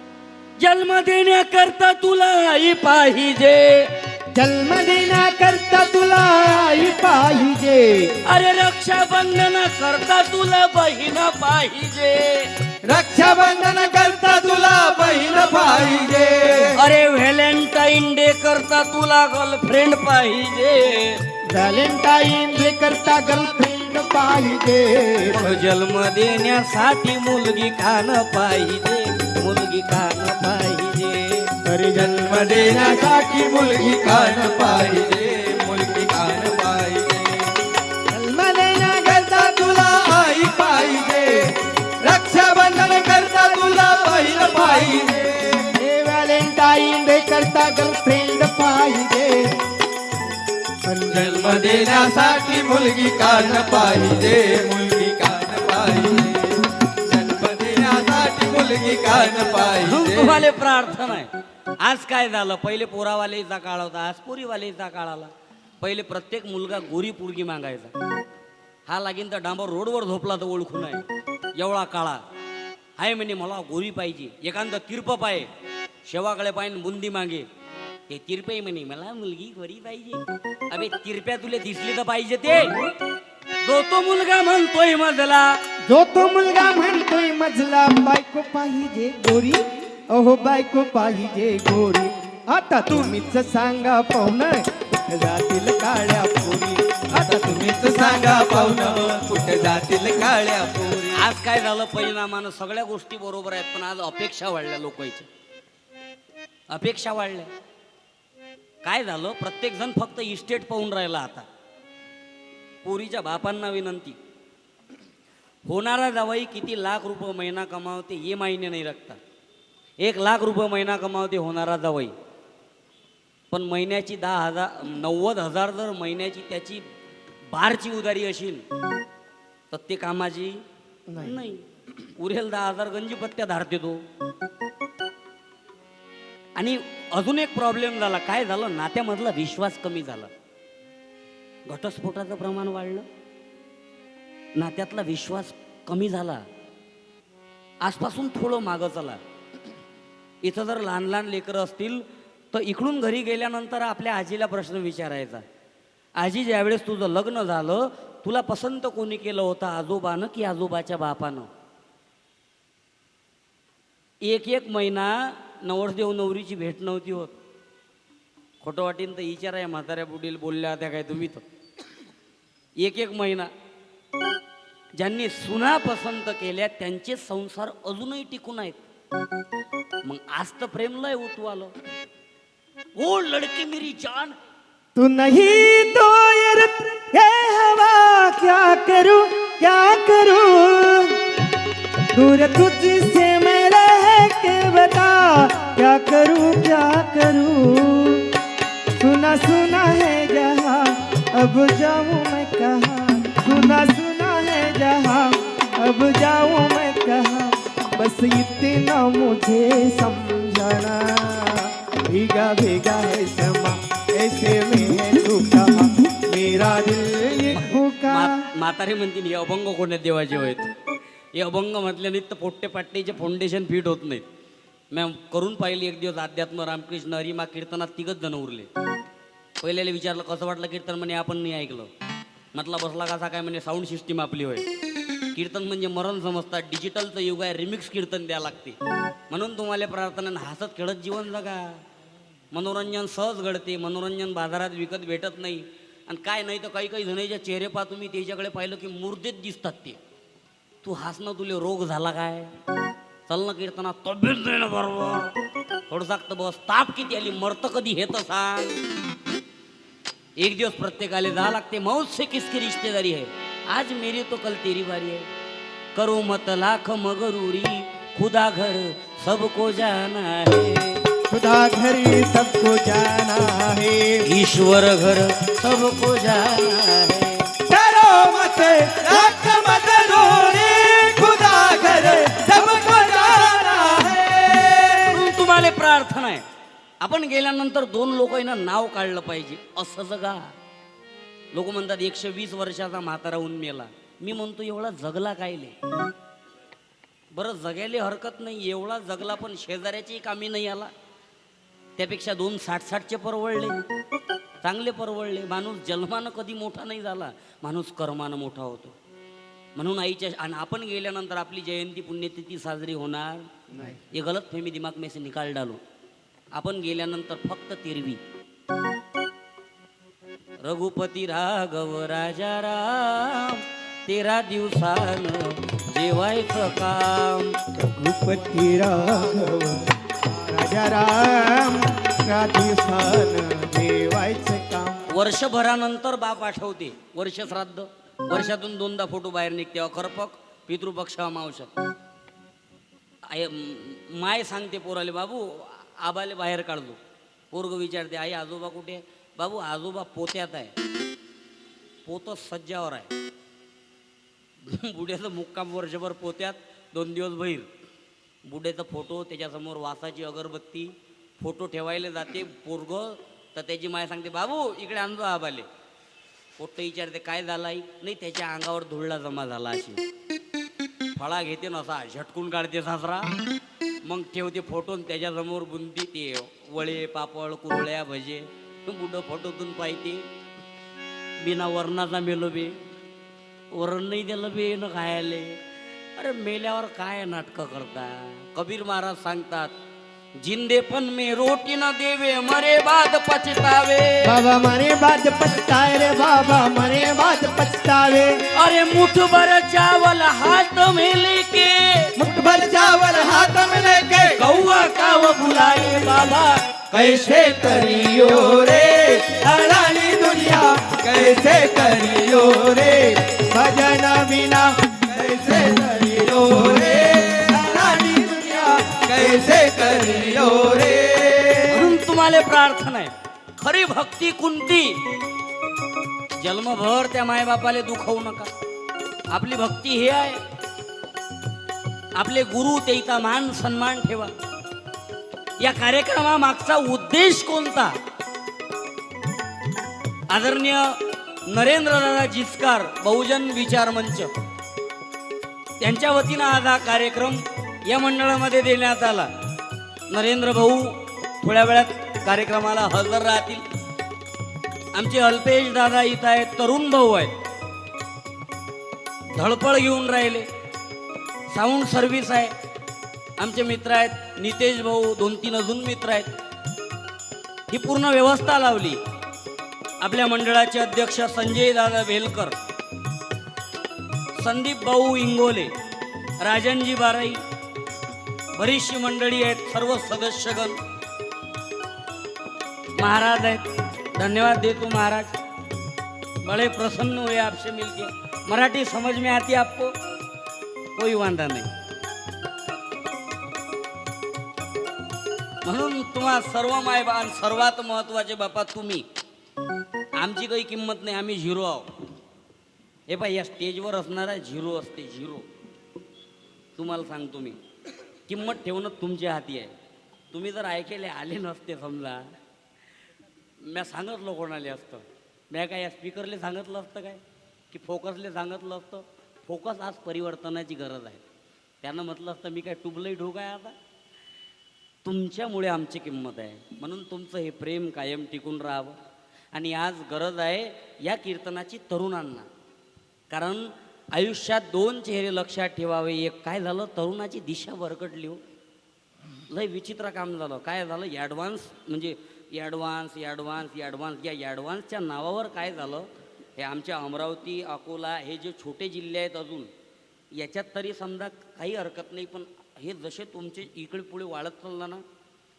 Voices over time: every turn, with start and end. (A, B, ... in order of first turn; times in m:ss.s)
0:00.6-0:03.9 A
0:04.3-0:08.2 B
0:08.2-0:12.5 A
0:12.8-0:16.7 C
0:16.7-0:21.2 A
0:21.5-0:25.6 B
0:25.3-0:31.5 A
0:31.6-0:33.2 B
0:31.9-0:37.5 C
0:38.1-0:39.2 B
0:39.0-0:45.7 C
0:45.7-0:49.6 B
0:50.8-0:51.3 B
0:51.0-1:00.4 C
0:59.8-1:01.3 A
1:01.8-1:07.9 A
1:08.9-1:11.0 A
1:11.6-1:12.2 A
1:13.0-1:15.5 A
1:16.0-1:17.4 A
1:18.1-1:22.7 A
1:23.6-1:25.6 A
1:25.9-1:38.5 B
1:37.1-1:41.2 C
1:41.1-1:45.3 A
1:46.7-1:47.5 A
1:48.8-1:51.5 A
1:52.8-1:54.2 A
1:55.6-1:59.2 A
2:00.0-2:02.1 A
2:03.5-2:06.8 A
2:07.5-2:08.6 A
2:09.7-2:10.6 A
2:11.1-2:11.4 B
2:11.2-2:11.6 A
2:12.2-2:14.0 A
2:16.6-2:20.3 A
2:21.7-2:23.1 A
2:24.5-2:26.4 A
2:27.8-2:29.2 A
2:30.4-2:35.4 A
2:36.2-2:41.5 A
2:44.2-2:47.4 A
2:48.6-2:51.4 A
2:52.8-2:53.5 A
2:55.0-2:58.8 A
3:00.0-3:01.7 A
3:03.0-3:04.4 A
3:04.9-3:11.2 B
3:12.1-3:18.3 B
3:19.0-3:38.4 B
3:37.5-3:40.7 A
3:41.3-3:44.2 A
3:44.9-3:48.7 A
3:49.6-3:51.9 A
3:52.5-3:54.6 A
3:55.3-3:58.8 A
3:59.3-4:01.8 A
4:02.5-4:10.0 A
4:10.8-4:12.5 A
4:13.3-4:15.3 A
4:15.9-4:18.8 A
4:20.4-4:25.3 A
4:25.9-4:31.0 A
4:31.3-4:34.3 B
4:34.2-4:37.5 A
4:37.7-4:45.2 C
4:45.1-4:46.4 A
4:47.0-4:50.5 A
4:51.5-4:55.8 A
4:57.3-5:00.9 A
5:02.0-5:03.8 A
5:04.6-5:08.9 A
5:09.8-5:13.5 A
5:14.1-5:15.8 A
5:16.5-5:18.2 A
5:20.6-5:27.6 A
5:27.8-5:35.0 B
5:35.1-5:41.7 A
5:43.3-5:47.0 A
5:47.5-5:50.7 A
5:52.0-5:53.1 A
5:54.7-5:57.7 A
5:58.4-6:05.7 A
6:06.6-6:10.0 A
6:11.2-6:13.3 A
6:14.0-6:20.2 A
6:21.4-6:22.8 A
6:23.7-6:25.6 A
6:26.2-6:29.7 A
6:30.4-6:34.4 A
6:34.2-6:38.4 B
6:38.5-6:42.1 A
6:42.2-6:42.4 B
6:42.2-6:44.4 C
6:44.4-6:46.8 A
6:46.9-6:53.4 C
6:48.0-6:48.4 B
6:53.4-6:54.8 B
6:55.1-7:01.8 C
7:01.7-7:05.0 A
7:06.4-7:08.5 A
7:09.3-7:10.4 A
7:12.2-7:14.3 A
7:15.6-7:18.0 A
7:20.3-7:21.0 A
7:21.5-7:24.3 A
7:25.8-7:29.3 A
7:30.1-7:33.6 A
7:34.9-7:37.3 A
7:39.3-7:40.5 A
7:41.5-7:42.5 A
7:43.4-7:46.3 A
7:47.7-7:49.0 A
7:50.0-7:52.5 A
7:54.4-7:55.7 A
7:56.4-7:57.4 A
7:58.5-8:00.8 A
8:03.0-8:05.4 A
8:06.4-8:09.9 A
8:10.9-8:11.7 A
8:15.6-8:19.0 A
8:20.2-8:21.9 A
8:23.1-8:25.4 A
8:26.8-8:27.6 A
8:28.3-8:29.7 A
8:30.3-8:32.3 A
8:33.6-8:41.2 A
8:41.8-8:43.8 A
8:45.0-8:49.0 A
8:49.5-8:52.5 A
8:53.3-8:58.4 A
8:59.5-9:09.7 A
9:10.3-9:15.0 A